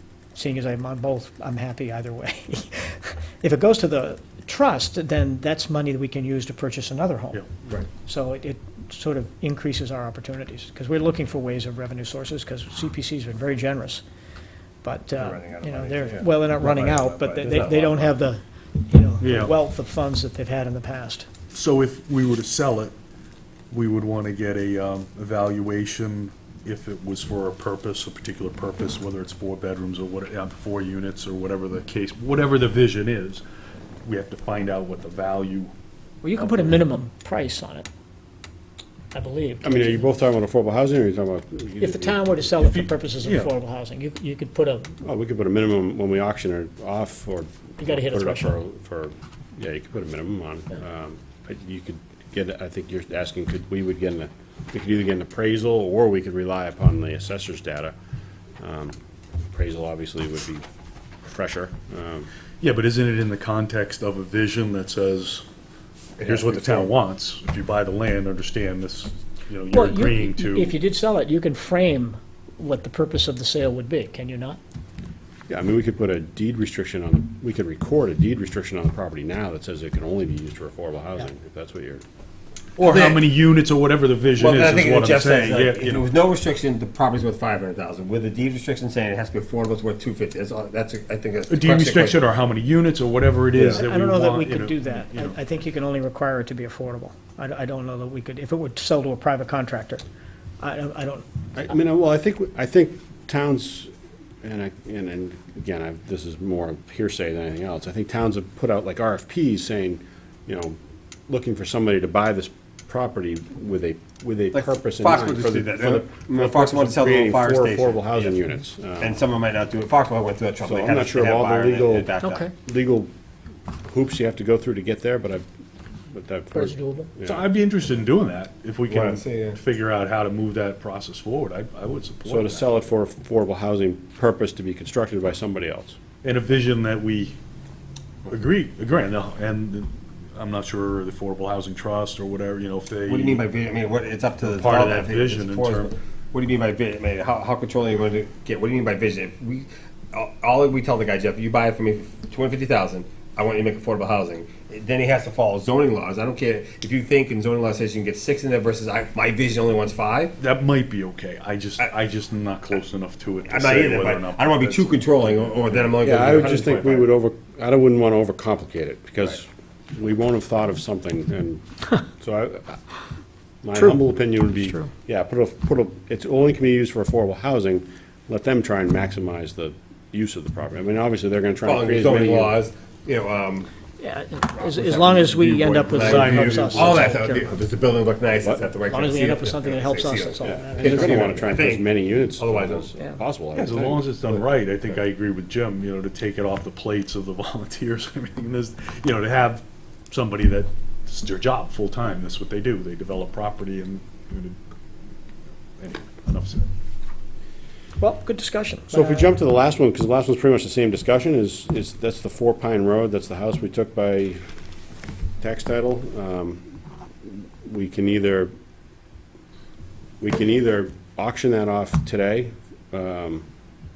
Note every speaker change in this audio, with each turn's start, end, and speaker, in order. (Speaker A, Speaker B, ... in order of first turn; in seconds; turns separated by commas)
Speaker A: 0.3-7.4, Speaker A: 8.0-14.0, Speaker A: 14.8-21.3, Speaker B: 15.2-18.2, Speaker C: 19.2-19.5, Speaker C: 21.5-22.9, Speaker C: 23.7-33.4, Speaker C: 34.0-35.7, Speaker A: 36.2-37.9, Speaker A: 39.1-40.0, Speaker D: 39.6-42.4, Speaker A: 41.8-44.9, Speaker C: 42.6-43.5, Speaker D: 45.0-57.9, Speaker A: 47.8-48.6, Speaker D: 58.6-59.0, Speaker D: 59.5-60.6, Speaker D: 61.2-62.3, Speaker C: 62.6-65.5, Speaker B: 66.2-66.9, Speaker C: 66.2-70.8, Speaker A: 69.7-74.6, Speaker D: 75.5-82.0, Speaker C: 82.8-86.0, Speaker B: 82.8-83.3, Speaker B: 84.4-92.2, Speaker C: 91.5-95.4, Speaker B: 93.5-93.8, Speaker A: 93.7-100.0, Speaker A: 100.6-101.3, Speaker D: 101.5-103.9, Speaker D: 104.4-110.8, Speaker D: 111.3-119.2, Speaker B: 114.5-118.4, Speaker B: 119.0-122.5, Speaker D: 120.6-123.1, Speaker A: 122.2-122.5, Speaker D: 123.7-125.5, Speaker D: 126.1-127.5, Speaker A: 126.5-127.1, Speaker C: 127.2-132.7, Speaker B: 128.9-129.6, Speaker D: 132.2-136.0, Speaker C: 136.2-137.4, Speaker C: 138.3-143.4, Speaker B: 143.1-160.3, Speaker C: 144.4-145.9, Speaker C: 160.4-165.9, Speaker B: 163.5-167.1, Speaker D: 166.0-172.8, Speaker D: 173.6-182.6, Speaker A: 173.8-174.0, Speaker A: 174.5-174.9, Speaker B: 181.7-183.7, Speaker A: 184.0-187.5, Speaker B: 184.6-192.9, Speaker C: 185.8-187.1, Speaker A: 188.9-191.3, Speaker D: 190.4-194.4, Speaker C: 193.6-204.6, Speaker C: 205.8-206.7, Speaker A: 208.0-209.3, Speaker D: 208.9-214.4, Speaker D: 215.4-216.6, Speaker D: 217.2-218.5, Speaker D: 220.2-223.4